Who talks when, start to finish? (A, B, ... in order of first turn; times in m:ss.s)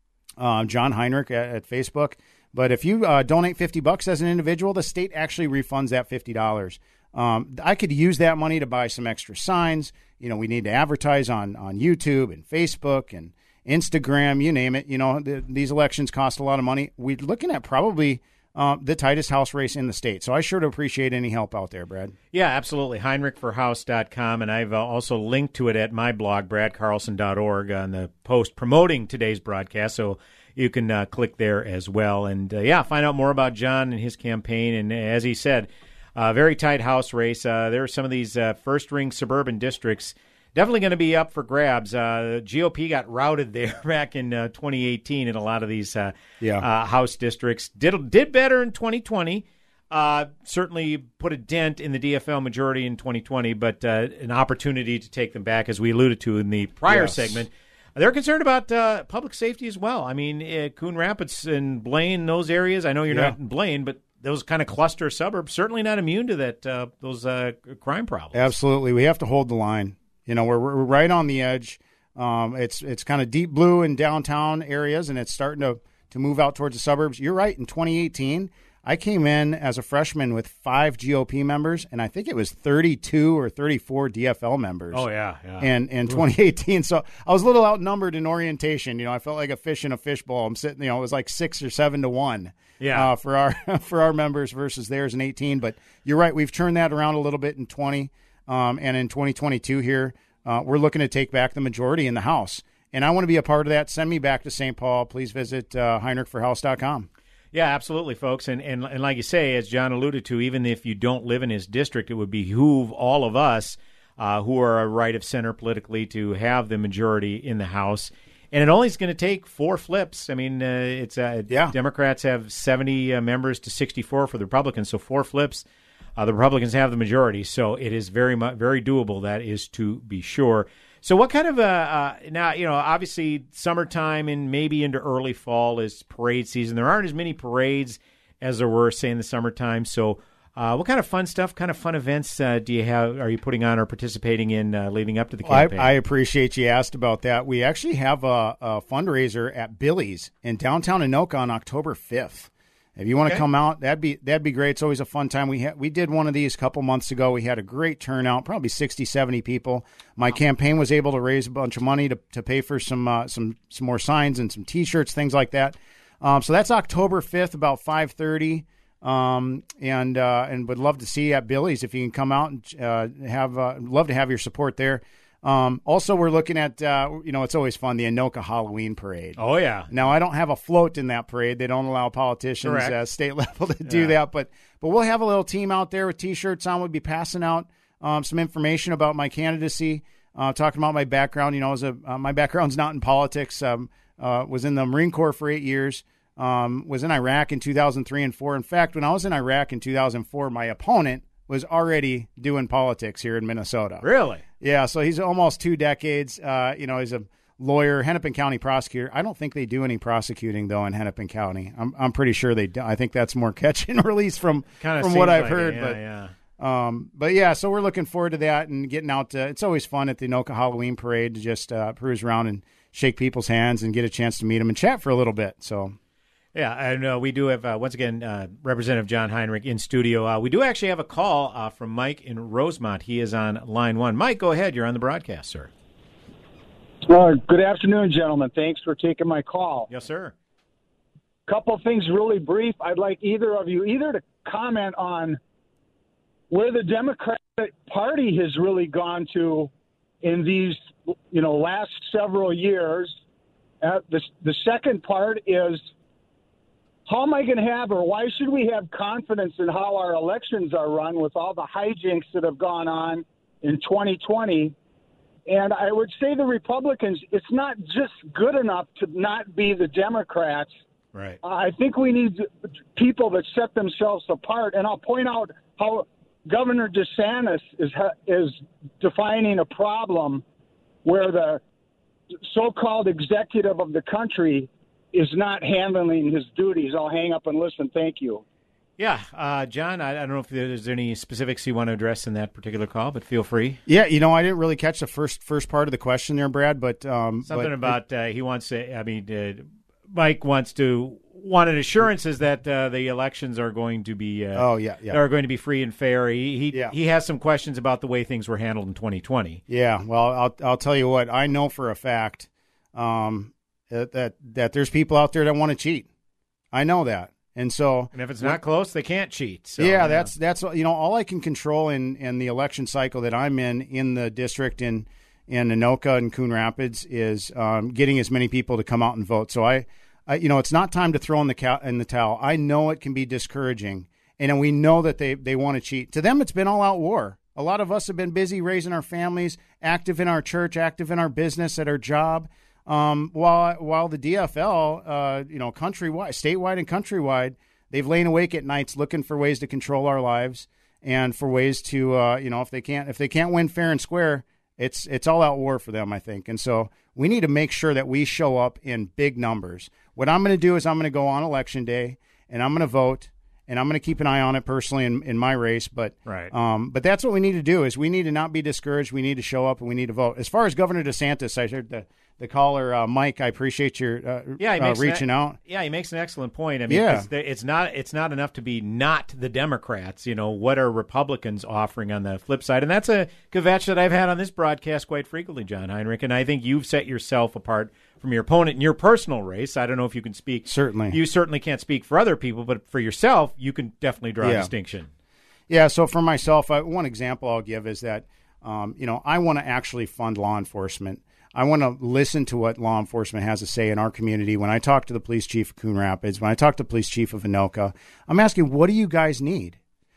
0:00.4-0:22.1 A
0:22.3-1:08.5 B
0:56.9-0:57.4 A
1:08.3-1:25.1 A
1:24.9-1:26.3 B
1:25.6-1:47.1 A
1:32.8-1:33.1 B
1:47.5-2:05.6 B
2:06.2-2:25.9 B
2:25.4-2:59.4 A
2:59.4-2:59.9 B
2:59.9-3:24.0 A
3:02.6-3:03.0 B
3:03.9-3:04.2 B
3:24.0-3:24.4 B
3:24.6-3:36.0 A
3:34.8-3:36.3 B
3:36.6-3:46.0 A
3:46.6-3:55.7 B
3:57.1-3:59.9 C
3:59.9-4:00.3 B
4:01.5-4:05.4 C
4:06.5-4:09.7 C
4:10.2-4:13.2 C
4:13.8-4:15.9 C
4:17.1-4:24.7 C
4:25.5-4:30.7 C
4:31.1-4:31.4 B
4:31.4-4:40.4 C
4:41.0-4:41.6 C
4:42.4-4:48.4 C
4:49.0-4:53.8 B
4:53.9-4:58.0 A
4:57.4-5:09.6 B
5:04.6-5:05.2 A
5:09.7-5:16.1 A
5:16.7-5:18.6 A
5:18.1-5:20.3 B
5:19.8-6:15.6 A
6:06.3-6:06.5 B
6:14.6-6:35.1 B
6:16.9-6:17.3 A
6:30.7-6:31.2 A
6:34.4-6:34.7 A
6:35.7-6:49.8 A